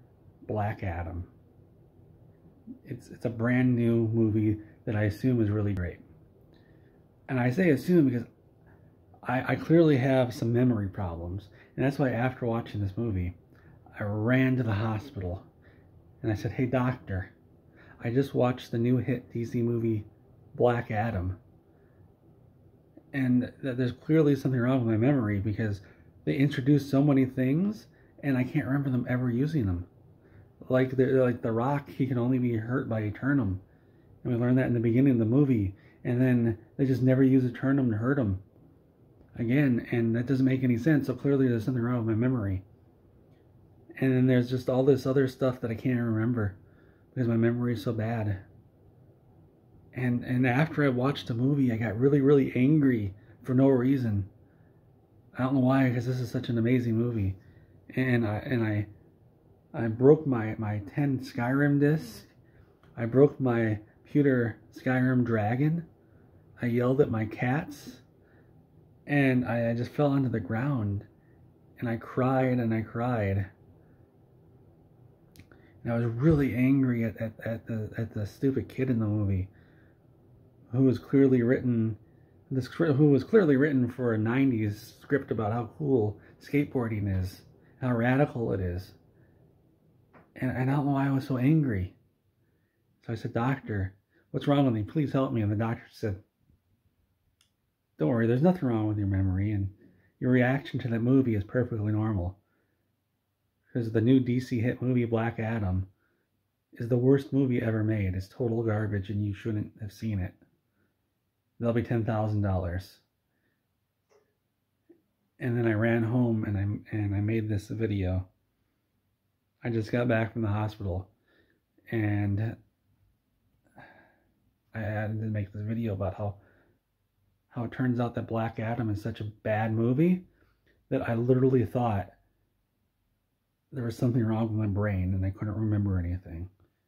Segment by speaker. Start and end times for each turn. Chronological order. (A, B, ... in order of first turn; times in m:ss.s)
0:00.4-0:01.3 A
0:02.8-0:06.0 A
0:07.3-0:08.3 A
0:09.2-0:13.4 A
0:14.0-0:15.5 A
0:16.2-0:17.3 A
0:18.0-0:21.4 A
0:23.1-0:29.9 A
0:30.7-0:33.6 A
0:34.2-0:38.4 A
0:39.4-0:42.6 A
0:44.0-0:46.6 A
0:47.1-0:48.4 A
0:49.9-0:54.3 A
0:55.3-0:57.4 A
0:57.9-0:58.9 A
0:59.7-1:02.3 A
1:03.0-1:05.9 A
1:06.6-1:08.0 A
1:09.1-1:11.1 A
1:11.8-1:13.5 A
1:15.8-1:19.5 A
1:20.7-1:29.0 A
1:30.4-1:32.0 A
1:33.0-1:36.2 A
1:38.0-1:42.4 A
1:43.7-1:45.9 A
1:46.7-1:50.4 A
1:51.6-1:53.0 A
1:55.4-1:58.3 A
1:59.6-2:01.1 A
2:01.9-2:02.6 A
2:04.7-2:06.4 A
2:07.5-2:10.2 A
2:10.9-2:12.1 A
2:13.7-2:16.5 A